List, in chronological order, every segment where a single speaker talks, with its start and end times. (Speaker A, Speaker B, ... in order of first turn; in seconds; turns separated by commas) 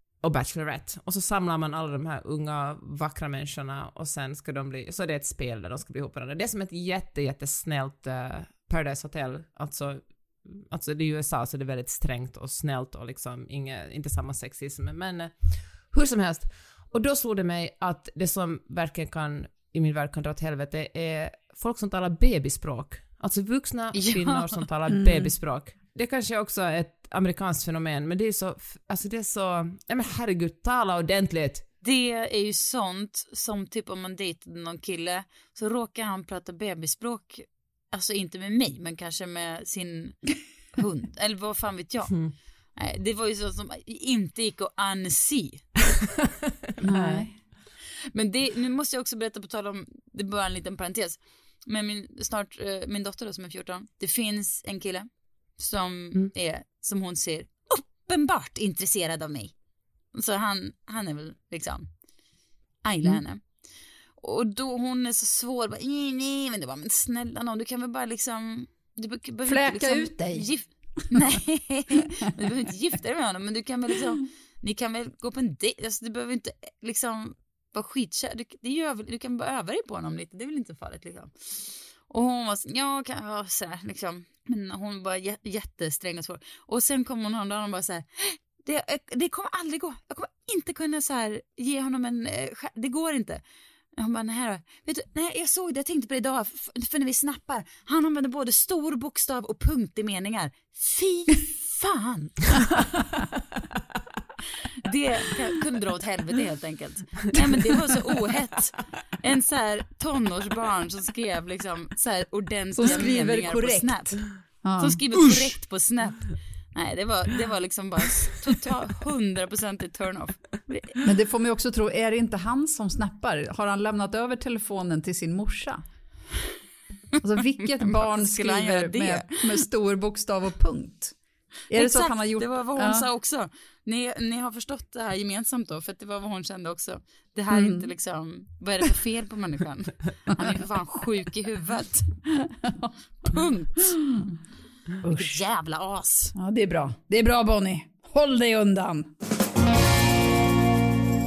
Speaker A: 0.2-31.6, Speaker B: 23.9-24.6, Speaker C: 24.9-25.3, Speaker B: 31.8-42.2, Speaker B: 42.8-45.7, Speaker C: 46.8-47.3, Speaker A: 46.9-47.2, Speaker B: 48.1-55.1, Speaker B: 55.6-59.5, Speaker B: 60.1-61.9, Speaker B: 62.8-63.4, Speaker B: 64.2-93.4, Speaker C: 69.5-70.5, Speaker B: 94.0-102.8, Speaker B: 104.8-114.3, Speaker C: 112.8-115.3, Speaker B: 114.8-121.0, Speaker C: 121.0-125.8, Speaker C: 127.2-131.2, Speaker B: 127.8-129.6, Speaker C: 131.7-133.1, Speaker B: 131.7-142.1, Speaker C: 137.5-137.9, Speaker C: 142.4-142.9, Speaker B: 143.2-143.9, Speaker C: 143.9-144.2, Speaker C: 145.0-145.4, Speaker B: 145.0-146.3, Speaker C: 146.3-149.1